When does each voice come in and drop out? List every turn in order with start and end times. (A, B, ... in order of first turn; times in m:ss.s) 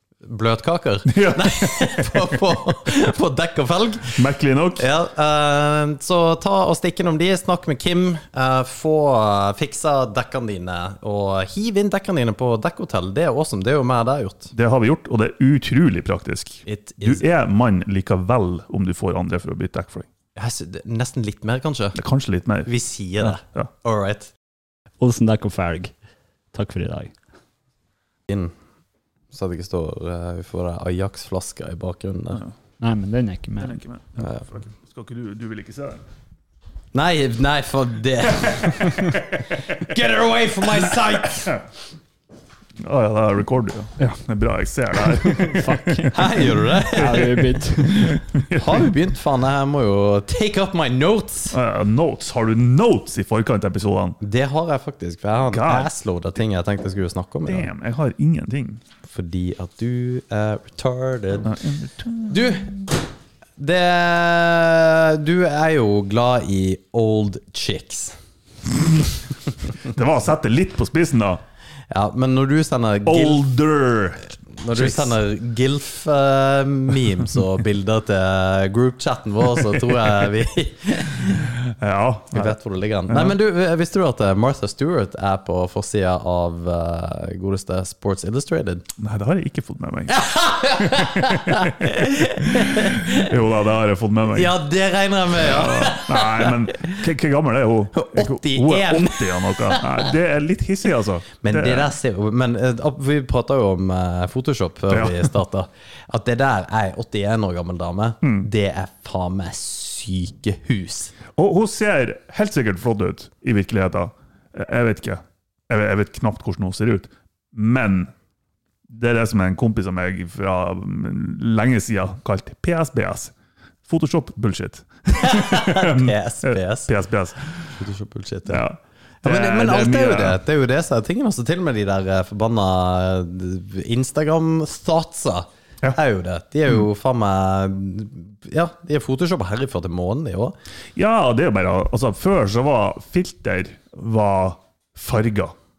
0:00.2-0:04.2 A
0:01.1-0:02.4 B
0:04.2-0:04.9 B
0:04.8-0:14.5 A
0:14.5-0:20.1 B
0:16.6-0:17.2 A
0:20.4-0:22.0 A
0:22.0-0:23.7 B
0:22.6-0:24.3 A
0:25.0-0:25.9 C
0:26.5-0:27.1 C
0:29.3-0:32.4 A
0:32.8-0:33.8 C
0:33.6-0:36.0 B
0:34.2-0:34.5 A
0:36.9-0:41.6 A
0:38.6-0:39.8 B
0:40.9-0:41.6 B
0:42.8-0:46.3 B
0:45.1-0:48.2 C
0:46.1-0:47.4 A
0:46.9-0:48.9 B
0:48.5-0:51.6 A
0:51.5-0:54.2 B
0:54.2-0:57.7 A
0:55.5-0:55.9 B
0:57.5-0:58.8 B
0:59.0-1:01.6 A
1:01.5-1:02.5 B
1:02.3-1:03.0 A
1:03.6-1:08.2 A
1:09.8-1:11.4 B
1:11.9-1:13.4 A
1:13.0-1:15.2 B
1:14.5-1:21.5 A
1:19.7-1:20.2 B
1:21.5-1:22.6 B
1:22.3-1:28.8 A
1:23.1-1:23.4 B
1:29.0-1:30.1 B
1:30.1-1:33.3 A
1:30.7-1:34.6 B
1:34.3-1:37.0 A
1:35.3-1:42.0 B
1:37.9-1:40.1 A
1:41.4-1:51.1 A
1:44.9-1:45.3 B
1:48.2-1:48.5 B
1:51.4-1:58.1 B
1:58.9-2:03.3 B
2:03.8-2:07.4 B
2:05.2-2:06.9 A
2:07.7-2:08.6 A
2:08.5-2:10.4 B
2:09.2-2:20.6 A
2:21.0-2:25.6 B